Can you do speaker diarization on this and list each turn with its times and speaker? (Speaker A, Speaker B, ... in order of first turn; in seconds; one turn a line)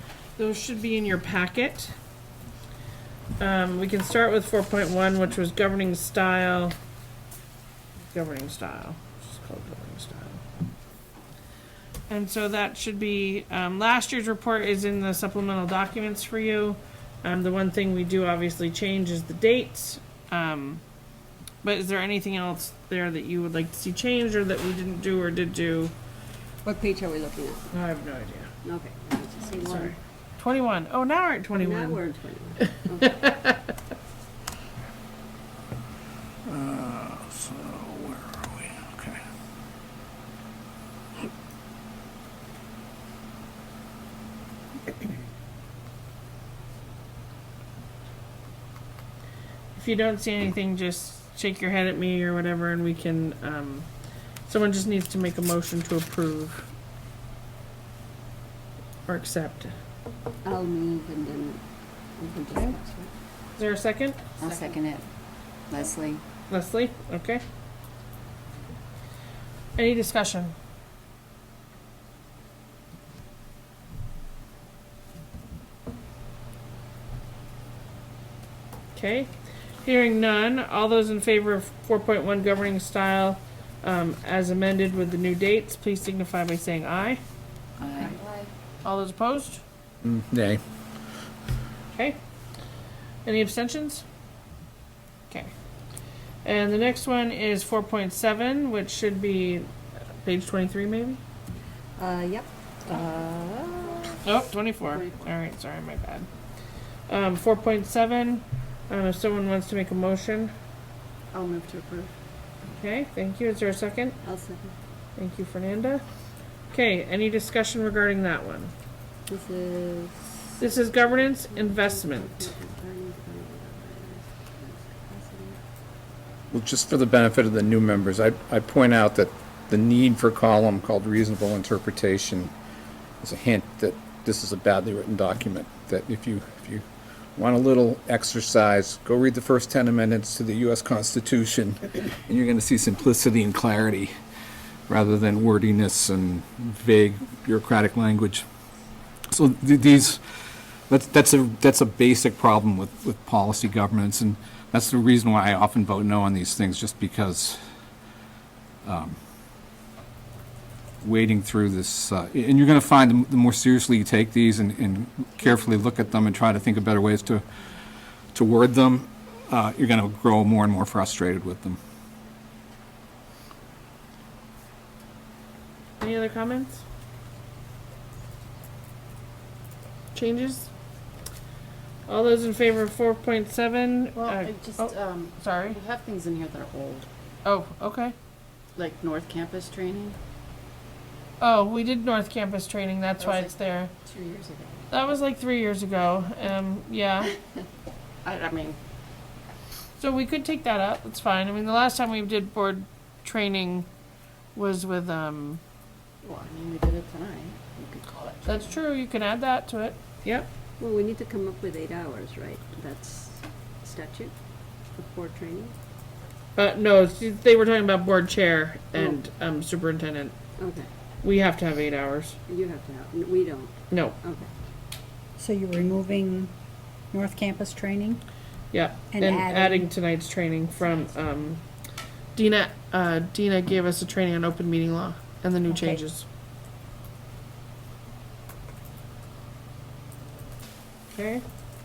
Speaker A: 0.4-1.9
Speaker A: 3.4-6.8
Speaker A: 8.1-10.4
Speaker A: 12.1-20.8
Speaker A: 21.6-25.9
Speaker B: 26.6-27.7
Speaker A: 27.7-28.5
Speaker B: 28.6-29.9
Speaker A: 29.6-32.0
Speaker B: 31.6-33.3
Speaker A: 33.0-33.7
Speaker C: 36.5-39.2
Speaker A: 49.7-53.9
Speaker A: 54.5-56.7
Speaker A: 59.1-59.8
Speaker B: 60.4-61.6
Speaker B: 62.2-63.1
Speaker A: 63.6-64.2
Speaker D: 64.4-65.0
Speaker B: 64.4-64.8
Speaker D: 65.7-66.2
Speaker A: 66.5-67.4
Speaker A: 69.8-70.5
Speaker A: 79.0-79.3
Speaker A: 79.8-87.2
Speaker D: 87.8-88.5
Speaker A: 88.8-89.6
Speaker C: 90.0-90.6
Speaker A: 93.2-94.0
Speaker A: 96.5-99.7
Speaker A: 100.2-101.2
Speaker B: 102.0-104.2
Speaker A: 104.2-106.3
Speaker A: 107.1-110.5
Speaker D: 111.3-112.1
Speaker A: 112.7-114.2
Speaker B: 114.2-114.7
Speaker A: 115.2-116.0
Speaker A: 116.7-118.7
Speaker B: 119.3-120.3
Speaker A: 120.6-122.5
Speaker B: 121.5-125.6
Speaker C: 126.5-132.5
Speaker C: 133.2-136.8
Speaker C: 137.4-144.1
Speaker C: 144.9-148.4
Speaker C: 149.3-150.2
Speaker C: 150.9-157.6
Speaker C: 158.8-159.2
Speaker C: 161.0-167.4
Speaker C: 168.3-171.8
Speaker A: 176.0-176.8
Speaker A: 180.1-180.7
Speaker A: 182.1-185.8
Speaker D: 184.2-187.1
Speaker A: 187.4-188.2
Speaker D: 188.8-190.2
Speaker A: 191.4-193.9
Speaker D: 193.2-194.8
Speaker A: 194.9-197.3
Speaker D: 198.2-198.8
Speaker A: 200.0-203.9
Speaker A: 204.6-205.6
Speaker D: 206.2-208.8
Speaker A: 208.4-210.5
Speaker B: 210.8-214.3
Speaker B: 215.0-215.7
Speaker A: 216.6-220.3
Speaker B: 220.6-220.9
Speaker A: 221.2-222.4
Speaker B: 222.5-224.5
Speaker A: 223.9-224.2
Speaker E: 225.4-226.6
Speaker E: 227.1-228.2
Speaker A: 228.7-231.6
Speaker E: 229.1-229.9
Speaker A: 232.3-236.3
Speaker E: 235.7-236.0
Speaker A: 241.1-241.4